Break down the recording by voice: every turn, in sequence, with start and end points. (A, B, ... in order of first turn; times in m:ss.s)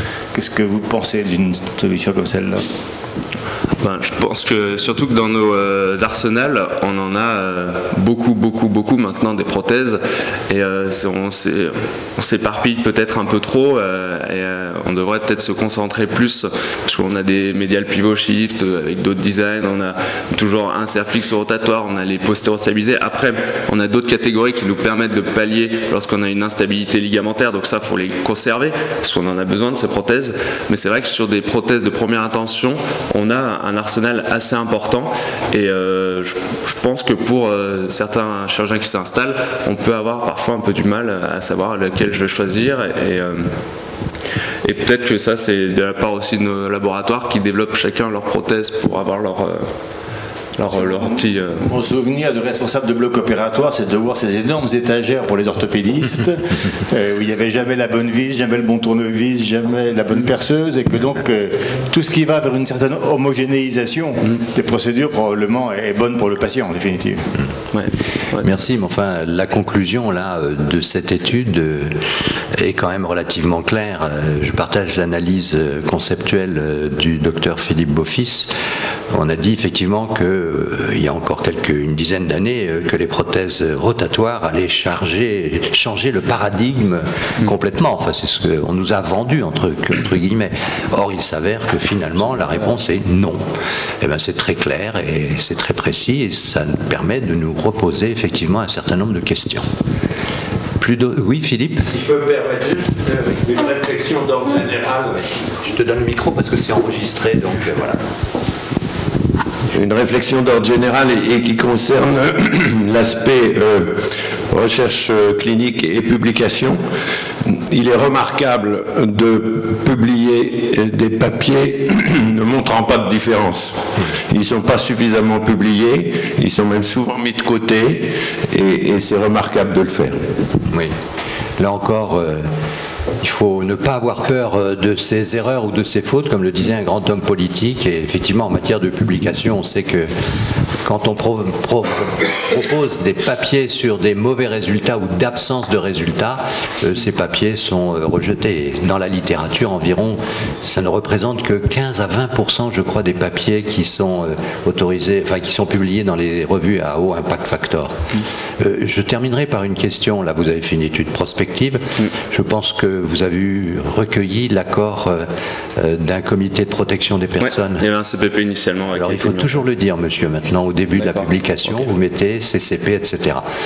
0:00.3-0:02.6 A
0:03.8-0:43.4 B
0:44.6-0:49.7 B
0:50.6-0:51.6 B
0:50.7-1:07.2 A
1:07.7-1:08.5 B
1:08.4-1:11.9 C
1:12.5-1:18.5 C
1:19.1-1:33.4 C
1:34.0-1:39.7 C
1:40.8-1:41.9 C
1:41.9-1:45.4 D
1:45.6-1:48.0 C
1:49.7-1:53.9 D
1:54.5-1:56.8 D
1:57.5-2:03.8 D
2:04.3-2:10.2 D
2:11.6-2:12.5 C
2:13.2-2:20.1 C
2:20.8-2:38.0 C
2:38.6-2:47.8 C
2:47.4-2:49.7 B
2:48.9-2:53.4 C
2:51.0-2:51.9 B